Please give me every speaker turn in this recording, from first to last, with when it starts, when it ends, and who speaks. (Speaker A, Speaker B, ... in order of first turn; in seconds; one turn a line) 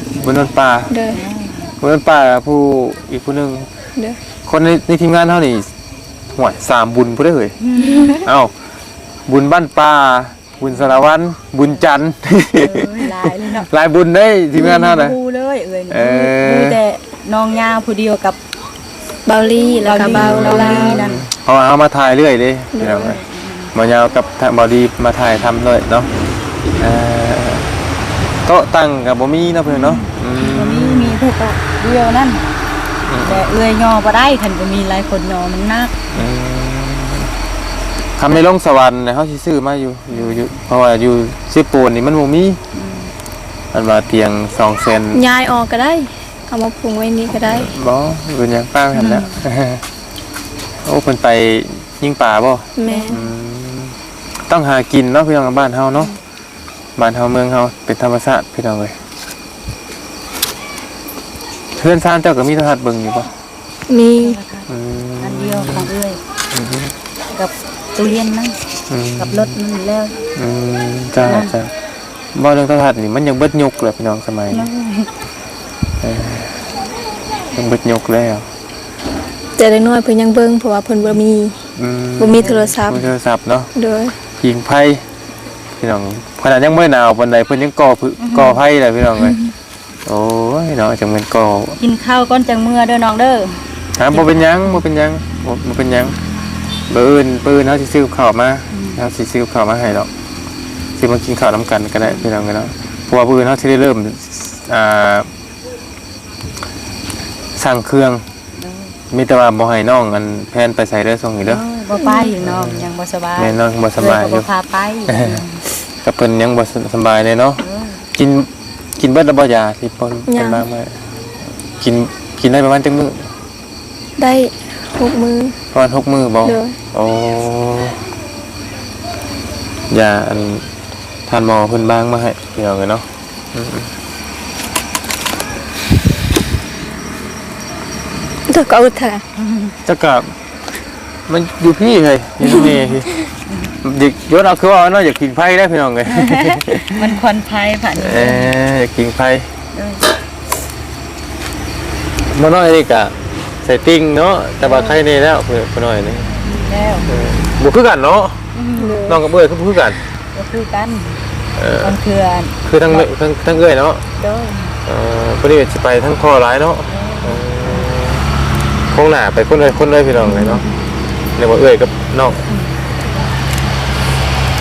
Speaker A: 0.1-0.9
Speaker B: 0.9-1.2
Speaker C: 1.1-1.7
Speaker A: 1.8-3.7
Speaker A: 4.5-5.7
Speaker A: 6.3-7.6
Speaker C: 7.6-8.3
Speaker A: 8.1-8.5
Speaker A: 9.3-15.2
Speaker C: 12.6-13.7
Speaker C: 14.5-18.4
Speaker A: 15.9-16.8
Speaker B: 19.3-21.1
Speaker C: 19.8-21.2
Speaker A: 20.1-23.2
Speaker B: 22.8-23.2
Speaker C: 23.0-23.7
Speaker A: 23.7-26.1
Speaker A: 26.8-27.7
Speaker A: 28.4-31.2
Speaker C: 29.7-32.5
Speaker A: 33.1-33.4
Speaker C: 33.2-36.0
Speaker A: 36.1-37.3
Speaker A: 38.2-42.6
Speaker C: 42.7-43.1
Speaker A: 43.7-45.2
Speaker B: 45.1-47.7
Speaker A: 47.5-49.8
Speaker C: 48.9-49.4
Speaker A: 50.8-54.0
Speaker B: 52.8-53.2
Speaker C: 52.9-53.2
Speaker A: 54.5-56.1
Speaker A: 57.0-59.0
Speaker A: 61.8-63.3
Speaker B: 63.9-64.4
Speaker C: 64.2-64.7
Speaker A: 64.7-65.9
Speaker C: 65.2-66.2
Speaker A: 66.5-66.9
Speaker C: 67.3-68.6
Speaker A: 68.9-69.6
Speaker C: 69.2-70.2
Speaker A: 70.4-71.7
Speaker C: 71.2-71.5
Speaker A: 72.3-74.7
Speaker C: 74.5-75.1
Speaker A: 76.0-76.6
Speaker A: 77.5-78.5
Speaker B: 79.6-81.6
Speaker A: 81.8-83.7
Speaker B: 82.2-83.1
Speaker C: 82.4-82.8
Speaker B: 83.8-84.2
Speaker A: 84.4-85.0
Speaker A: 85.8-89.4
Speaker C: 88.2-88.6
Speaker A: 90.1-91.8
Speaker C: 91.8-94.8
Speaker A: 94.0-96.2
Speaker A: 96.9-100.1
Speaker C: 98.7-99.0
Speaker A: 101.0-105.3
Speaker C: 102.0-102.3
Speaker A: 107.6-108.2
Speaker C: 108.6-109.0
Speaker A: 109.1-111.6
Speaker C: 111.4-115.6
Speaker B: 112.0-112.3
Speaker A: 112.4-114.5
Speaker A: 115.1-117.6
Speaker C: 117.6-118.0
Speaker A: 118.2-121.0
Speaker B: 120.3-120.7
Speaker A: 121.8-123.3
Speaker B: 124.2-125.6
Speaker A: 125.7-128.0
Speaker B: 126.4-126.8
Speaker A: 129.9-130.7
Speaker A: 131.3-133.9
Speaker B: 138.5-139.2
Speaker C: 139.4-139.8
Speaker A: 139.9-140.3
Speaker A: 141.3-143.1
Speaker B: 142.4-142.8
Speaker A: 143.8-147.2
Speaker C: 146.1-148.5
Speaker A: 148.0-149.5
Speaker C: 149.7-150.0
Speaker A: 152.3-156.4
Speaker C: 154.6-155.0
Speaker C: 156.4-157.1
Speaker A: 157.1-158.4
Speaker C: 158.5-159.1
Speaker B: 158.8-159.2
Speaker A: 159.1-160.0
Speaker C: 160.3-161.2
Speaker A: 161.6-162.0
Speaker C: 161.8-163.1
Speaker A: 162.6-164.0
Speaker C: 164.2-164.8
Speaker A: 164.9-168.3
Speaker C: 166.9-167.9
Speaker A: 168.9-170.7
Speaker C: 170.2-170.7
Speaker A: 171.4-172.4
Speaker C: 172.5-172.8